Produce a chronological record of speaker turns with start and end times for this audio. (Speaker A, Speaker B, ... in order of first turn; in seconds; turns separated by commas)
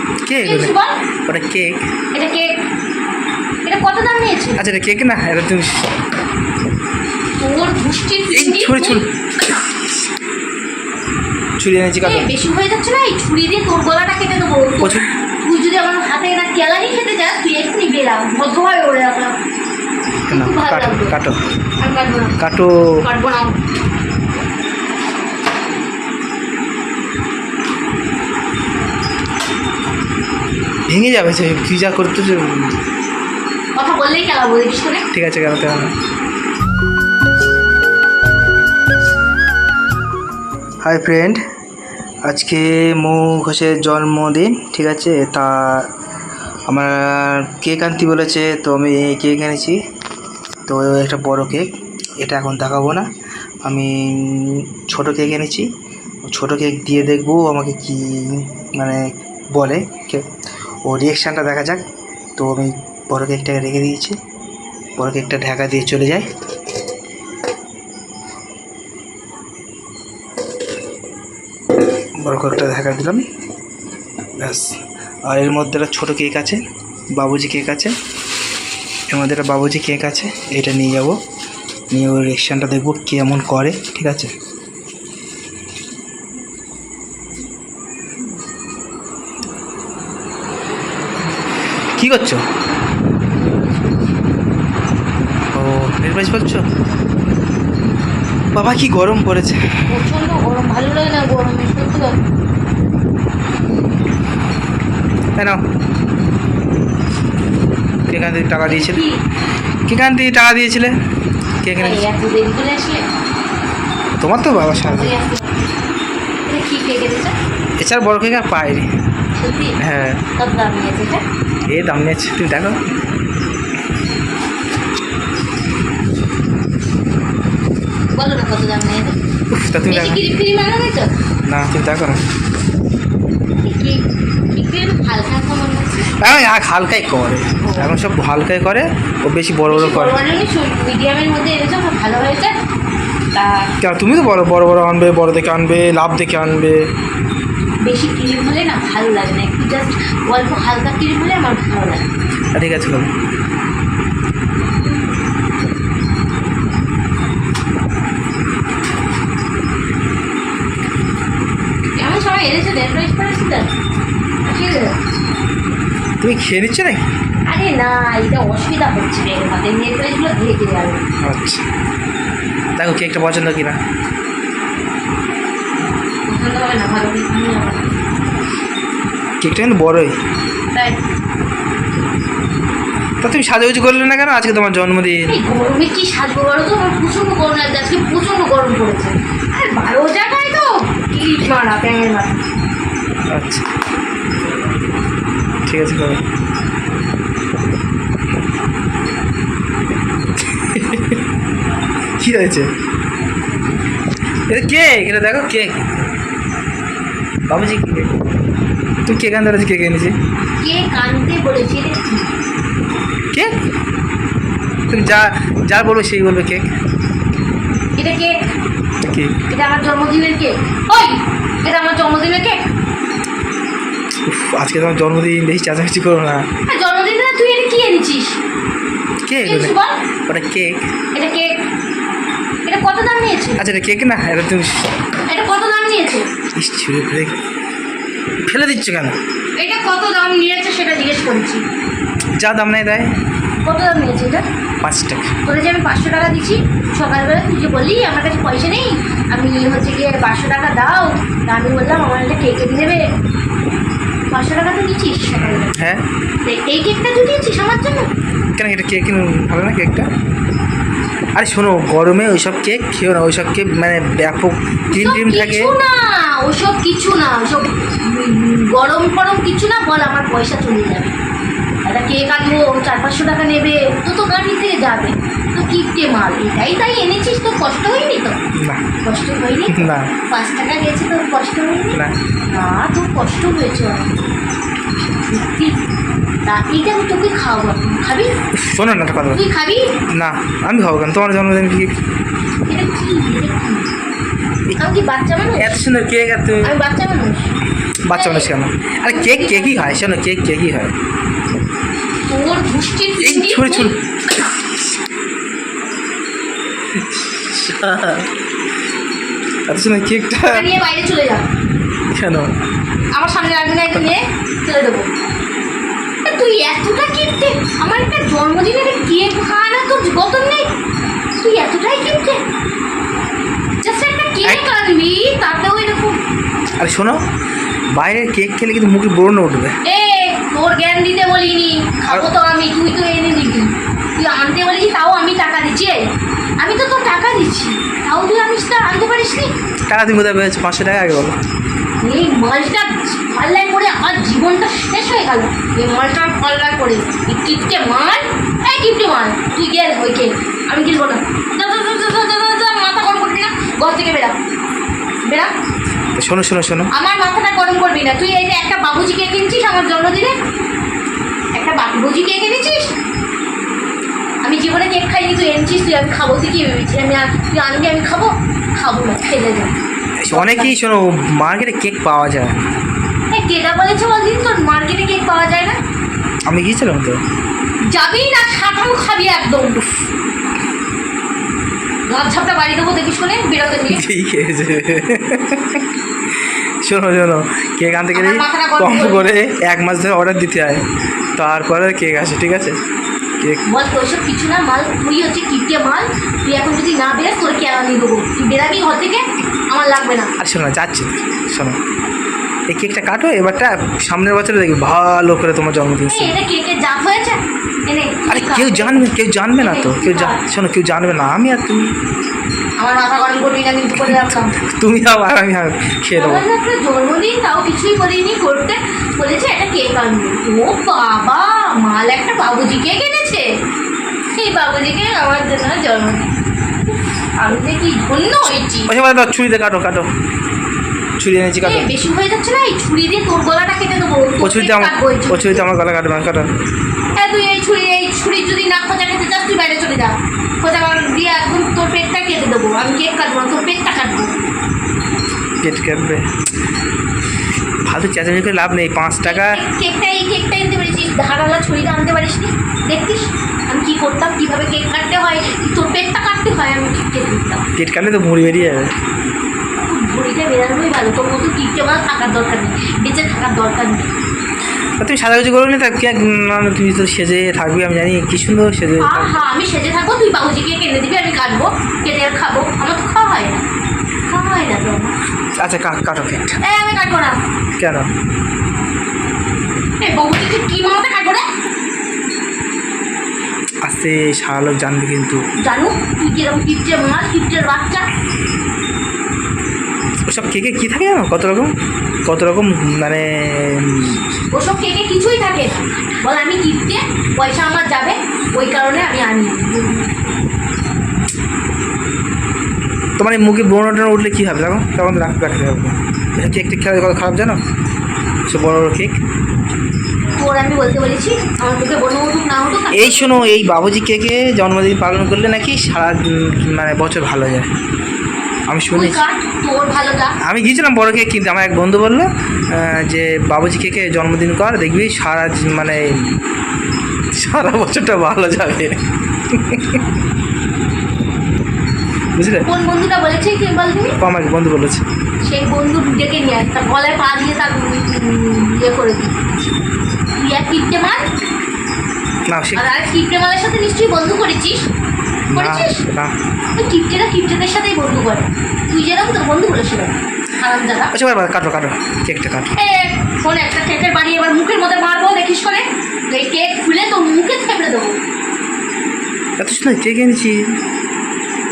Speaker A: 0.3-0.7, Speaker B: 0.4-1.0, Speaker A: 1.3-1.9, Speaker B: 2.1-2.5, Speaker B: 3.6-4.6, Speaker A: 4.6-6.0, Speaker B: 7.4-9.5, Speaker A: 8.3-9.1, Speaker A: 11.6-12.3, Speaker B: 12.0-19.4, Speaker A: 14.8-15.1, Speaker B: 20.3-21.1, Speaker A: 20.3-21.4, Speaker B: 21.8-22.4, Speaker A: 22.4-23.0, Speaker B: 23.0-23.6, Speaker A: 30.9-32.8, Speaker B: 33.8-35.0, Speaker A: 35.1-36.0, Speaker A: 40.8-41.4, Speaker A: 42.3-45.9, Speaker A: 46.7-49.8, Speaker A: 50.7-51.7, Speaker A: 52.2-53.1, Speaker A: 53.6-55.7, Speaker A: 56.3-60.3, Speaker A: 60.9-61.9, Speaker A: 62.4-64.2, Speaker A: 65.0-66.3, Speaker A: 72.2-73.2, Speaker A: 74.4-76.6, Speaker A: 77.1-77.9, Speaker A: 79.1-81.2, Speaker A: 81.9-84.3, Speaker A: 92.0-92.4, Speaker B: 93.4-94.2, Speaker A: 95.5-96.7, Speaker A: 98.5-99.8, Speaker B: 99.9-102.2, Speaker A: 108.1-109.0, Speaker B: 108.6-109.2, Speaker A: 109.9-111.0, Speaker A: 111.6-112.0, Speaker B: 111.8-113.1, Speaker A: 114.2-115.2, Speaker B: 114.8-115.7, Speaker B: 116.5-117.3, Speaker A: 117.8-118.9, Speaker B: 119.4-119.8, Speaker A: 119.8-120.2, Speaker B: 120.4-121.2, Speaker A: 121.7-122.8, Speaker B: 128.2-129.2, Speaker A: 129.5-130.2, Speaker B: 129.9-131.1, Speaker A: 131.5-132.2, Speaker B: 133.6-136.1, Speaker A: 136.2-140.2, Speaker B: 137.6-137.9, Speaker B: 139.7-142.6, Speaker B: 143.3-143.7, Speaker A: 143.8-146.8, Speaker B: 147.9-152.1, Speaker A: 152.6-153.1, Speaker B: 162.0-163.7, Speaker B: 164.4-165.0, Speaker A: 166.2-167.1, Speaker B: 167.5-171.0, Speaker A: 171.2-171.7, Speaker A: 172.8-173.8, Speaker B: 176.3-178.0, Speaker A: 179.4-180.2, Speaker B: 180.7-181.0, Speaker A: 183.2-185.4, Speaker B: 185.3-192.4, Speaker A: 193.3-193.7, Speaker A: 195.7-196.2, Speaker A: 200.5-201.2, Speaker A: 202.2-202.7, Speaker A: 204.5-205.8, Speaker A: 207.5-208.1, Speaker A: 209.1-210.2, Speaker B: 210.6-212.3, Speaker A: 214.9-216.7, Speaker B: 218.0-218.4, Speaker A: 219.0-219.3, Speaker B: 219.5-222.7, Speaker A: 224.3-226.5, Speaker B: 226.7-228.4, Speaker A: 229.3-229.8, Speaker B: 229.4-230.0, Speaker A: 230.3-230.8, Speaker B: 231.2-231.5, Speaker B: 232.7-233.6, Speaker A: 233.6-234.9, Speaker B: 235.3-236.3, Speaker A: 236.6-237.4, Speaker A: 238.4-239.2, Speaker B: 239.6-241.7, Speaker A: 242.4-243.1, Speaker B: 243.7-244.5, Speaker A: 244.8-245.3, Speaker B: 245.4-253.1, Speaker B: 254.3-255.7, Speaker A: 255.3-256.0, Speaker B: 256.4-258.1, Speaker A: 258.6-260.1, Speaker A: 261.4-265.8, Speaker B: 264.9-271.2, Speaker B: 271.9-278.4, Speaker A: 278.6-278.8, Speaker B: 279.1-284.2, Speaker A: 279.7-280.1, Speaker B: 285.2-285.8, Speaker B: 286.5-288.4, Speaker A: 288.5-289.4, Speaker B: 289.3-289.9, Speaker A: 290.1-291.9, Speaker B: 292.7-293.9, Speaker B: 294.8-295.8, Speaker A: 295.6-296.8, Speaker B: 296.6-297.5, Speaker A: 298.1-300.9, Speaker B: 298.1-298.5, Speaker B: 299.1-300.0, Speaker B: 302.3-304.0, Speaker A: 303.2-304.0, Speaker A: 306.9-308.3, Speaker A: 309.7-310.7, Speaker B: 310.4-311.5, Speaker A: 312.1-312.5, Speaker B: 313.1-315.1, Speaker B: 316.2-320.7, Speaker B: 321.4-322.4, Speaker B: 323.8-326.2, Speaker A: 326.8-327.2, Speaker A: 327.9-329.8, Speaker B: 329.9-336.1, Speaker B: 336.6-339.5, Speaker A: 339.9-341.4, Speaker B: 342.0-354.4, Speaker B: 355.3-355.5, Speaker A: 356.2-356.9, Speaker B: 356.9-360.4, Speaker B: 361.6-362.9, Speaker B: 364.4-369.8, Speaker A: 370.2-372.6, Speaker B: 370.3-370.7, Speaker B: 373.3-375.8, Speaker A: 376.5-377.2, Speaker B: 377.9-379.9, Speaker B: 382.1-384.0, Speaker A: 383.9-385.9, Speaker A: 386.8-390.9, Speaker B: 388.1-389.3, Speaker A: 391.4-392.8, Speaker B: 393.7-400.3, Speaker A: 400.4-401.8, Speaker A: 402.7-406.4, Speaker B: 406.1-410.4, Speaker A: 408.3-411.9, Speaker B: 412.8-414.6, Speaker A: 414.0-416.4, Speaker B: 416.2-423.5, Speaker B: 424.3-426.3, Speaker B: 426.9-428.9, Speaker A: 428.9-430.1, Speaker A: 431.2-431.9, Speaker B: 431.6-435.6, Speaker A: 434.4-436.5, Speaker B: 437.1-444.4, Speaker A: 445.6-446.3, Speaker A: 447.9-449.6, Speaker B: 449.3-457.7, Speaker A: 457.8-458.9, Speaker B: 459.9-464.1, Speaker A: 465.0-469.4, Speaker B: 469.0-473.6, Speaker B: 474.3-475.2, Speaker A: 475.6-476.6, Speaker B: 476.6-477.4, Speaker A: 477.8-478.1, Speaker B: 480.0-481.5, Speaker A: 483.8-485.4, Speaker B: 485.6-488.1, Speaker A: 490.3-491.7, Speaker A: 492.3-494.2, Speaker B: 494.5-500.4, Speaker A: 503.2-507.6, Speaker A: 508.5-509.2, Speaker B: 510.4-513.7, Speaker A: 512.9-517.7, Speaker A: 518.7-519.2, Speaker B: 518.9-520.3, Speaker A: 520.4-526.4, Speaker A: 527.3-530.0, Speaker A: 532.4-532.7, Speaker B: 532.6-534.2, Speaker A: 534.2-535.0, Speaker B: 535.4-539.4, Speaker B: 540.4-541.3, Speaker A: 542.5-542.8, Speaker B: 542.7-544.9, Speaker A: 545.5-546.4, Speaker B: 545.5-546.0, Speaker B: 546.8-551.1, Speaker A: 551.1-552.7, Speaker B: 552.7-558.2, Speaker A: 559.6-560.8